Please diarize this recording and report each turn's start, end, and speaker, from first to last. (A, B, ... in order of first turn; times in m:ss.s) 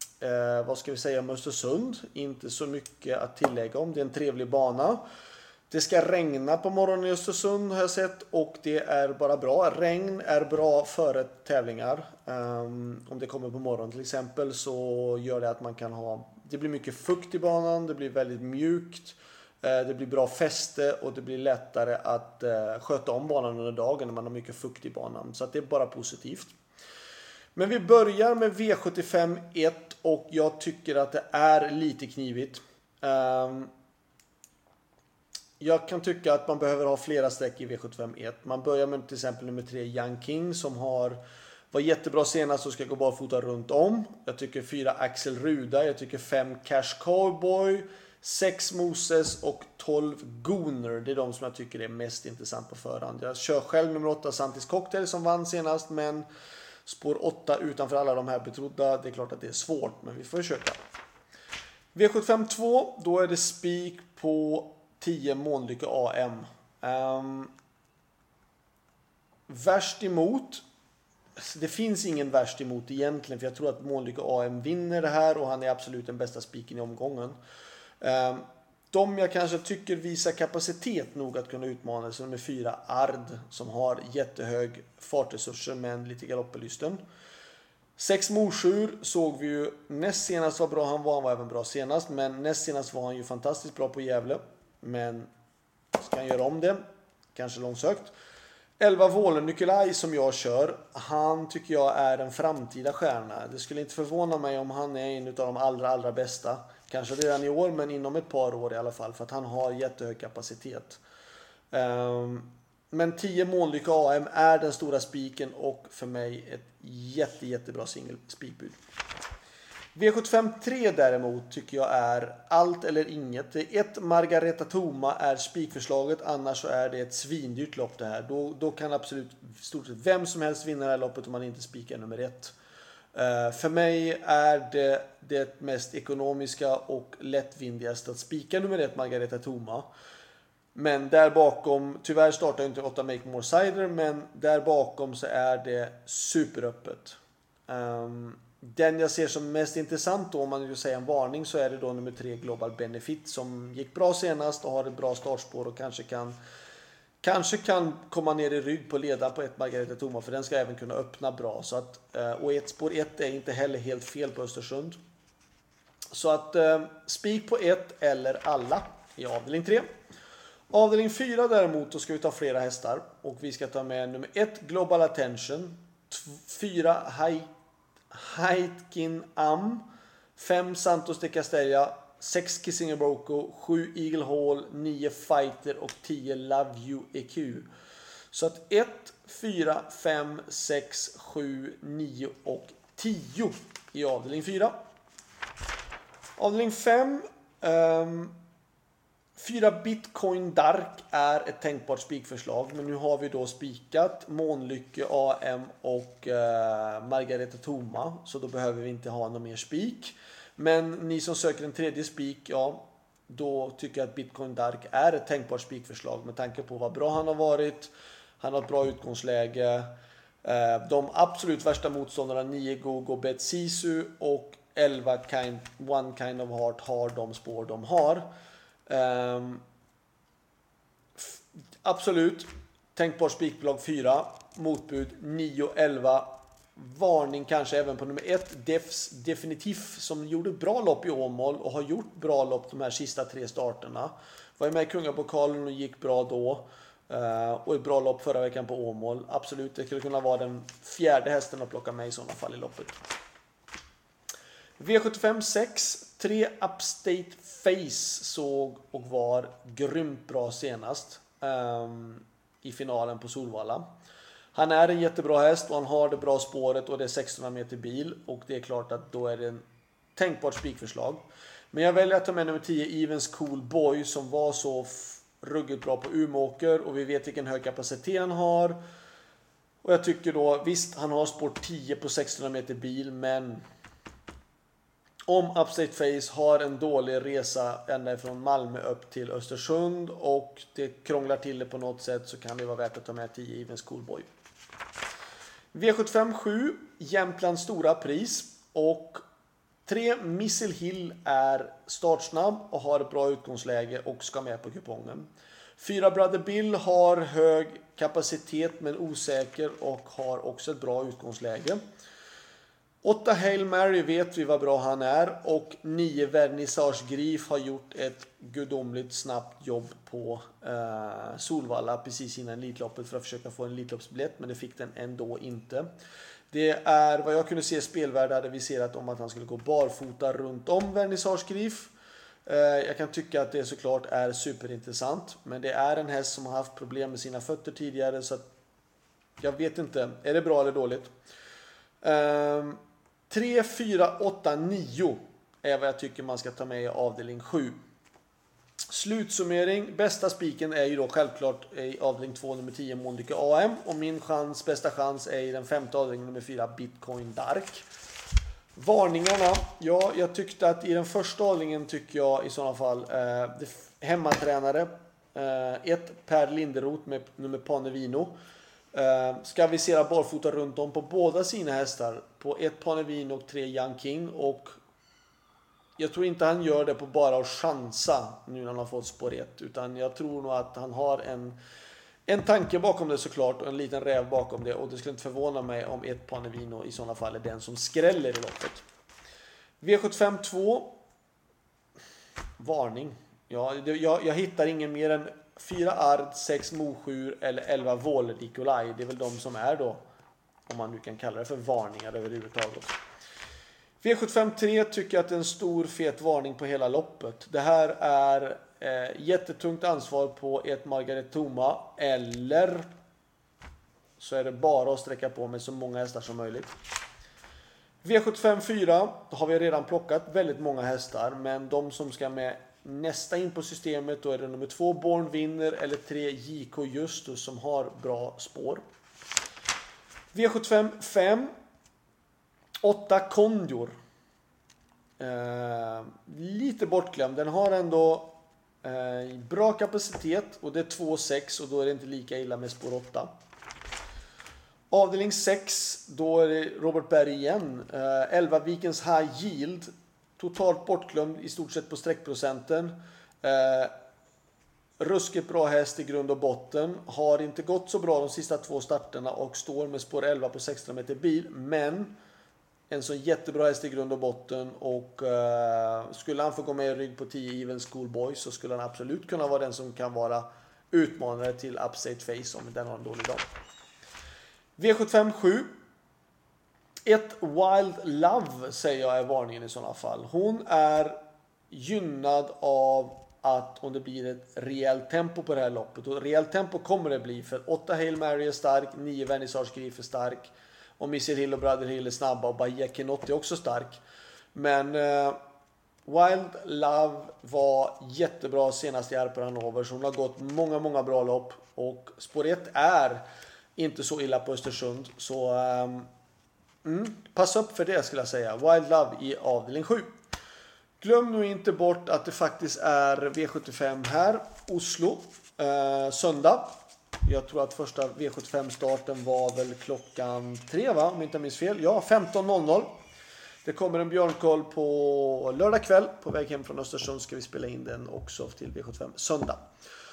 0:00.2-0:05.0 A
0:05.7-0:26.5 A
0:27.5-0:33.7 A
0:35.6-0:41.2 A
0:41.7-0:56.2 A
0:56.8-1:00.8 A
1:01.9-1:07.5 A
1:09.5-1:10.6 A
1:11.4-1:17.4 A
1:18.0-1:27.0 A
1:28.0-1:35.3 A
1:36.0-1:36.8 A
1:37.3-1:38.1 A
1:38.8-1:51.0 A
1:51.7-1:58.8 A
1:59.9-2:12.5 A
2:13.1-2:19.9 A
2:20.7-2:36.4 A
2:37.2-2:45.0 A
2:46.1-2:49.9 A
2:50.7-2:57.5 A
2:58.1-2:59.8 A
3:00.4-3:07.7 A
3:08.3-3:14.7 A
3:16.4-3:18.3 A
3:19.4-3:39.9 A
3:40.4-3:48.3 A
3:48.9-3:49.6 A
3:51.2-4:13.0 A
4:14.8-4:23.8 A
4:24.5-4:29.6 A
4:30.2-4:38.8 A
4:39.8-4:43.6 A
4:45.3-4:54.3 A
4:55.7-4:59.2 A
4:59.8-5:11.8 A
5:13.0-5:25.9 A
5:26.5-5:31.9 A
5:32.4-5:38.4 A
5:39.4-5:41.1 A
5:42.0-5:47.8 A
5:48.9-5:57.8 A
5:58.7-6:08.4 A
6:08.9-6:14.8 A
6:16.0-6:21.6 A
6:22.2-6:28.8 A
6:29.8-6:31.0 A
6:32.6-6:40.0 A
6:40.7-6:42.9 A
6:44.0-6:52.9 A
6:54.2-6:56.7 A
6:58.0-7:08.8 A
7:10.3-7:11.5 A
7:12.8-7:13.9 A
7:15.2-7:23.3 A
7:24.9-7:33.9 A
7:35.0-7:42.1 A
7:42.9-7:53.4 A
7:54.8-7:55.7 A
7:57.0-8:01.2 A
8:01.7-8:14.0 A
8:14.5-8:15.4 A
8:16.0-8:23.2 A
8:23.8-8:26.1 A
8:26.8-8:30.1 A
8:31.0-8:42.9 A
8:43.6-8:49.6 A